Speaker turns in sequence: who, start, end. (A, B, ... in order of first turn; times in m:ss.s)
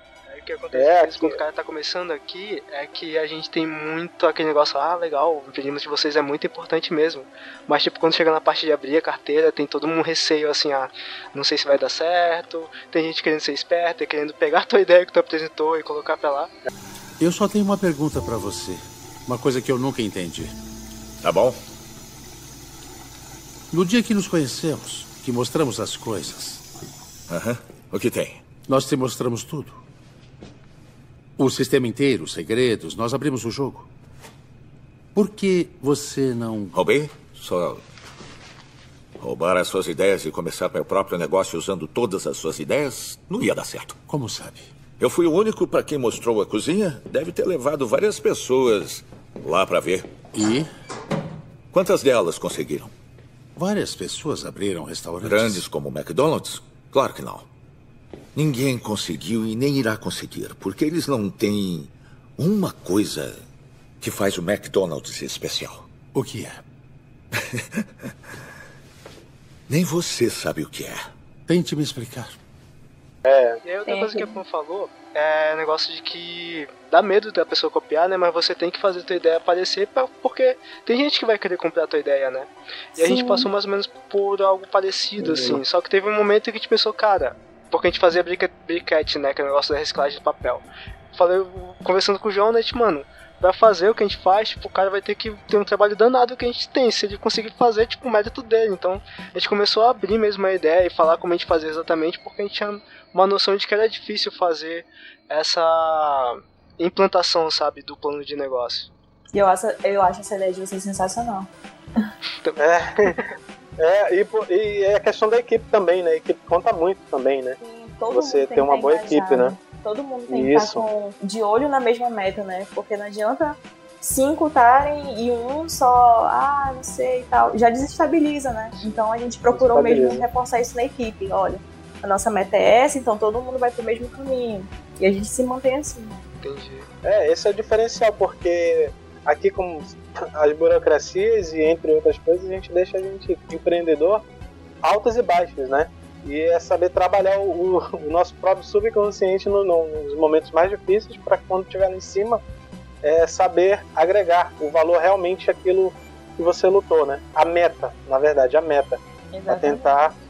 0:00.3-0:16.5 A
0:00.7-0:01.4 B
0:17.2-0:20.5 C
0:21.2-0:21.6 D
0:23.7-0:26.6 C
0:27.3-0:28.4 D
0:28.7-0:29.8 C
0:31.4-0:33.9 C
0:35.1-0:36.8 C
0:36.7-0:37.9 D
0:39.2-0:44.0 D
0:44.1-0:44.7 C
0:45.0-0:50.1 D
0:50.3-0:50.7 C
0:51.7-0:52.9 D
0:53.5-0:55.6 C
0:55.2-0:57.5 D
0:58.3-1:03.4 D
1:04.0-1:05.8 D
1:06.1-1:06.6 C
1:09.7-1:11.1 D
1:11.5-1:12.4 C
1:13.2-1:13.6 B
1:13.6-1:48.9 A
1:13.9-1:14.3 E
1:23.0-1:23.5 E
1:25.2-1:25.6 B
1:49.3-1:52.1 E
1:52.4-1:53.3 A
1:52.6-1:53.2 B
1:53.8-1:57.6 B
1:57.6-2:16.2 E
1:58.1-1:59.6 B
2:00.3-2:00.8 B
2:08.8-2:09.0 A
2:09.5-2:10.2 B
2:16.4-2:16.9 A
2:17.0-2:24.2 B
2:24.8-2:32.4 B
2:33.0-2:40.1 B
2:39.3-2:40.0 E